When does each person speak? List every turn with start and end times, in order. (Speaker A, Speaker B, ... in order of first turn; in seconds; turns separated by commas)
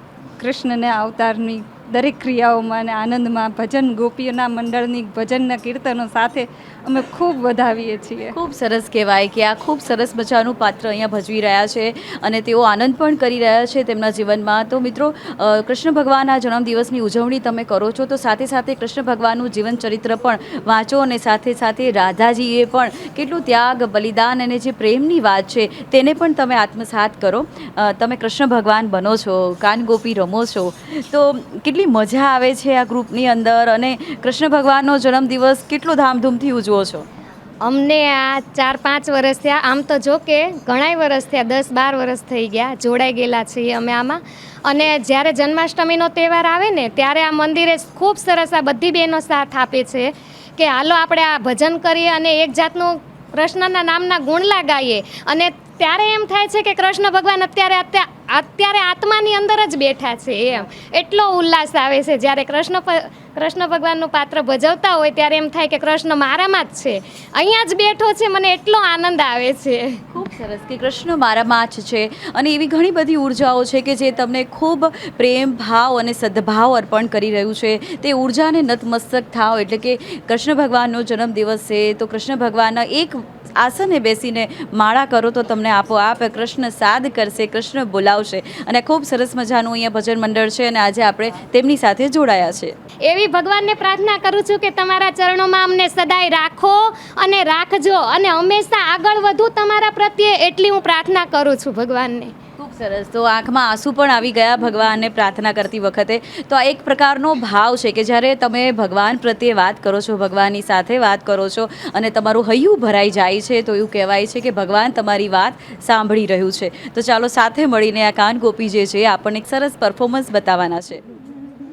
Speaker A: 0.4-8.3, Speaker B: 8.3-37.1, Speaker C: 37.6-70.0, Speaker B: 70.1-92.7, Speaker C: 93.0-102.3, Speaker B: 102.6-121.0